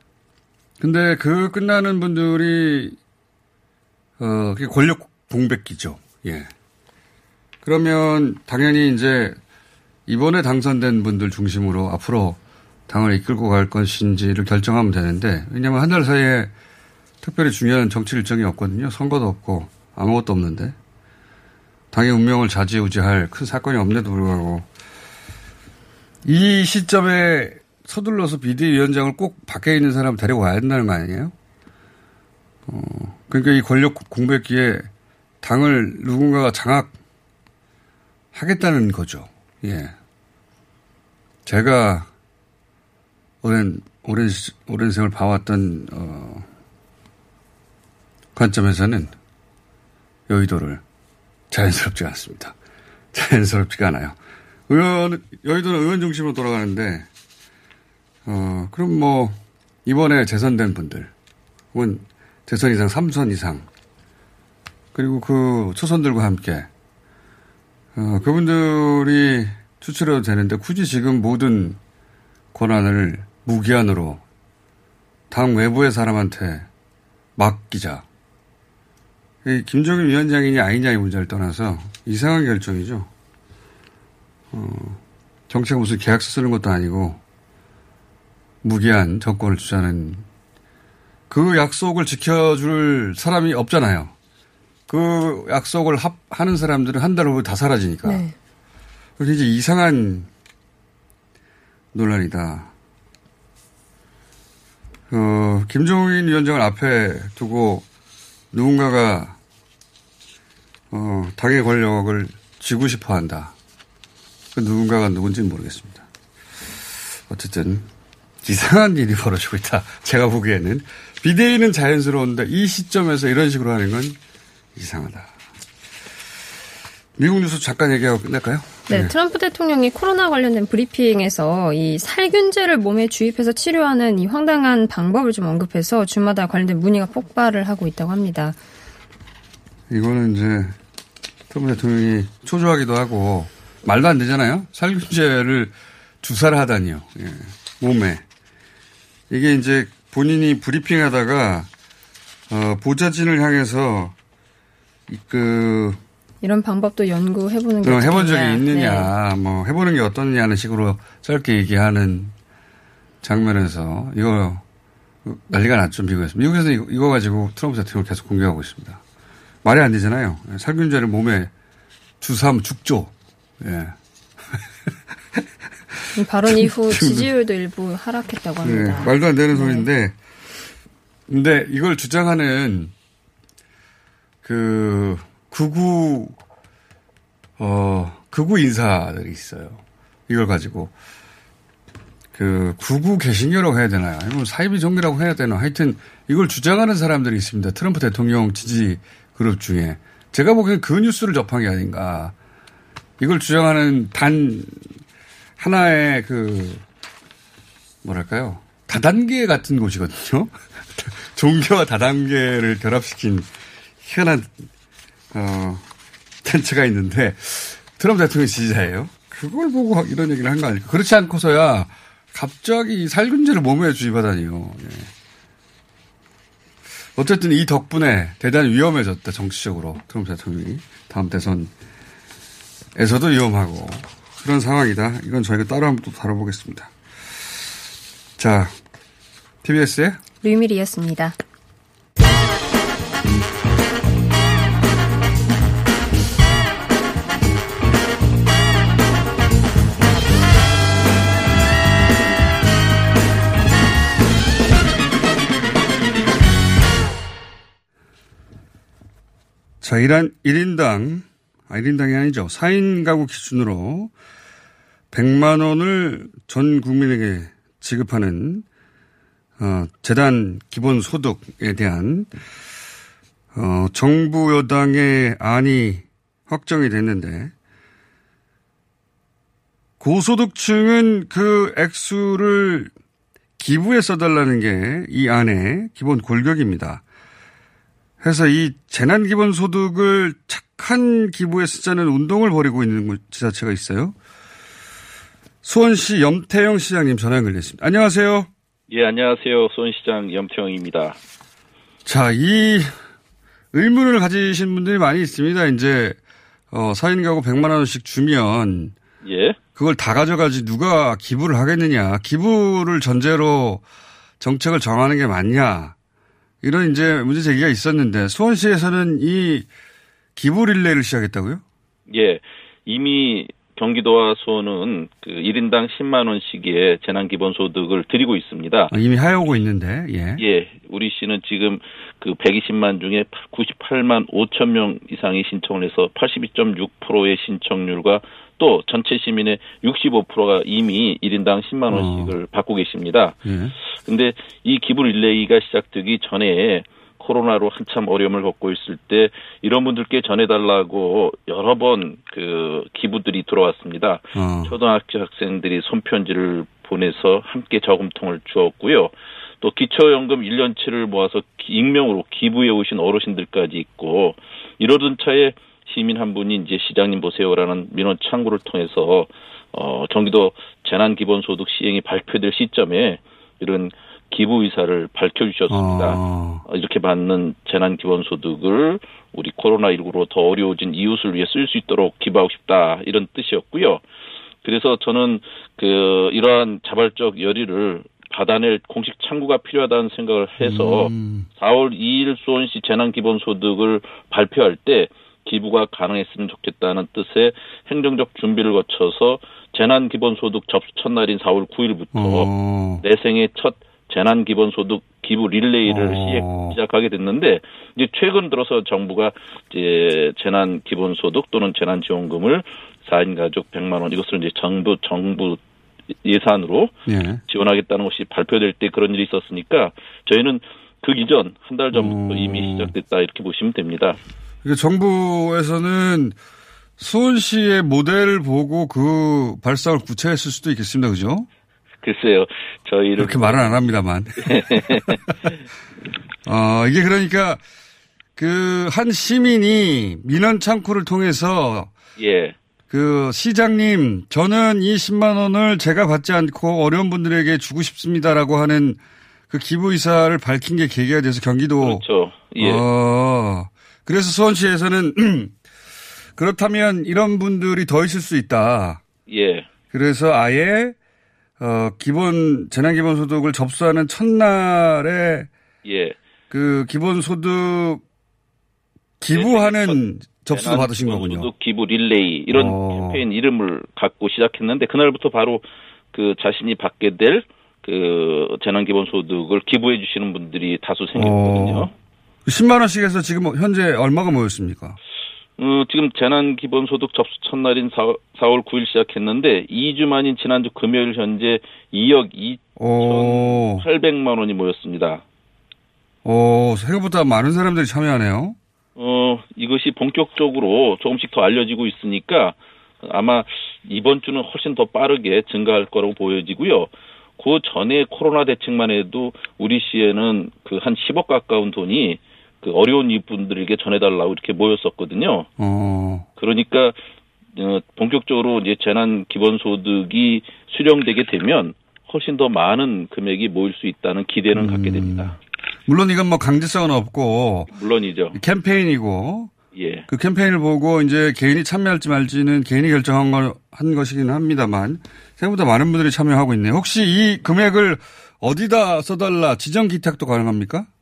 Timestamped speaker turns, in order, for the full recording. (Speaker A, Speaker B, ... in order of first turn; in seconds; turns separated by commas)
Speaker A: 0.8-3.0, Speaker A: 4.2-6.5, Speaker A: 7.6-9.4, Speaker A: 10.1-16.5, Speaker A: 17.2-20.8, Speaker A: 21.9-24.7, Speaker A: 26.2-31.3, Speaker A: 32.7-34.9, Speaker A: 35.4-37.0, Speaker A: 38.3-40.0, Speaker A: 41.5-42.1, Speaker A: 43.4-46.5, Speaker A: 48.4-49.1, Speaker A: 50.3-50.8, Speaker A: 51.5-52.5, Speaker A: 53.1-54.2, Speaker A: 54.7-57.1, Speaker A: 58.2-61.1, Speaker A: 61.7-63.7, Speaker A: 64.9-66.7, Speaker A: 68.0-71.8, Speaker A: 72.5-74.2, Speaker A: 75.3-76.7, Speaker A: 77.4-78.0, Speaker A: 79.5-83.1, Speaker A: 84.5-87.2, Speaker A: 88.6-90.2, Speaker A: 91.3-94.1, Speaker A: 94.9-98.2, Speaker B: 98.0-98.3, Speaker A: 99.2-100.3, Speaker A: 101.9-102.7, Speaker A: 105.1-107.8, Speaker A: 108.5-109.3, Speaker A: 110.9-113.5, Speaker A: 114.5-116.1, Speaker A: 117.3-117.9, Speaker A: 118.4-124.2, Speaker A: 124.8-125.3, Speaker A: 127.2-129.1, Speaker B: 128.9-138.6, Speaker A: 139.9-140.8, Speaker A: 141.5-148.2, Speaker A: 149.3-151.7, Speaker A: 152.5-154.1, Speaker A: 155.1-156.0, Speaker B: 156.4-159.1, Speaker A: 157.8-162.3, Speaker A: 163.2-164.6, Speaker A: 165.2-169.0, Speaker A: 169.6-171.5, Speaker A: 172.2-173.9, Speaker A: 175.9-177.3, Speaker B: 176.2-179.9, Speaker A: 178.6-180.2, Speaker A: 181.3-182.9, Speaker A: 184.4-186.4, Speaker A: 187.6-190.9, Speaker A: 192.3-202.3, Speaker A: 203.2-204.9, Speaker A: 205.6-206.8, Speaker A: 208.0-213.5, Speaker A: 214.0-214.5, Speaker A: 215.3-215.8, Speaker A: 216.4-225.1, Speaker A: 227.2-231.7, Speaker A: 232.9-237.4, Speaker A: 238.4-238.8, Speaker A: 239.6-240.2, Speaker B: 240.4-241.3, Speaker A: 259.8-264.1, Speaker A: 265.1-268.6, Speaker A: 269.6-272.3, Speaker A: 273.5-277.5, Speaker A: 280.0-282.9, Speaker A: 283.6-287.0, Speaker A: 288.2-294.1, Speaker A: 295.6-298.5, Speaker C: 298.9-301.2, Speaker A: 302.1-302.9, Speaker A: 303.7-306.2, Speaker A: 306.7-308.9, Speaker C: 309.2-309.6, Speaker A: 309.8-313.8, Speaker A: 314.4-315.9, Speaker A: 316.6-319.7, Speaker A: 320.4-321.6, Speaker C: 322.1-328.9, Speaker A: 328.9-330.4, Speaker C: 330.4-343.4, Speaker A: 341.9-342.4, Speaker A: 343.4-343.7, Speaker C: 344.1-384.0, Speaker A: 354.4-354.7, Speaker A: 375.7-376.6, Speaker C: 384.6-402.5, Speaker A: 390.6-391.5, Speaker A: 402.1-403.0, Speaker C: 403.0-415.6, Speaker A: 405.9-406.8, Speaker C: 416.2-416.9, Speaker A: 417.1-417.4, Speaker C: 417.5-424.2, Speaker A: 421.9-422.9, Speaker A: 424.6-426.4, Speaker A: 427.0-431.5, Speaker C: 432.0-433.8, Speaker A: 433.2-435.5, Speaker C: 434.4-435.5, Speaker A: 436.5-437.6, Speaker A: 438.4-441.9, Speaker C: 442.2-442.6, Speaker A: 442.9-452.1, Speaker C: 451.8-452.8, Speaker A: 452.6-455.6, Speaker A: 456.4-459.0, Speaker C: 459.3-459.7, Speaker A: 459.9-461.0, Speaker A: 461.6-465.5, Speaker C: 465.9-466.2, Speaker A: 466.5-468.0, Speaker A: 469.2-471.5, Speaker C: 469.3-470.0, Speaker C: 470.5-481.9, Speaker A: 472.5-473.2, Speaker A: 481.1-481.9, Speaker A: 482.5-485.0, Speaker C: 485.6-495.2, Speaker A: 492.8-493.9, Speaker A: 496.2-498.6, Speaker C: 499.0-515.5, Speaker A: 515.6-516.3, Speaker C: 516.4-517.0, Speaker C: 517.5-525.4, Speaker A: 524.5-525.4, Speaker A: 525.9-527.7, Speaker C: 527.7-528.4, Speaker A: 528.3-529.5, Speaker C: 529.8-530.1, Speaker A: 530.1-540.9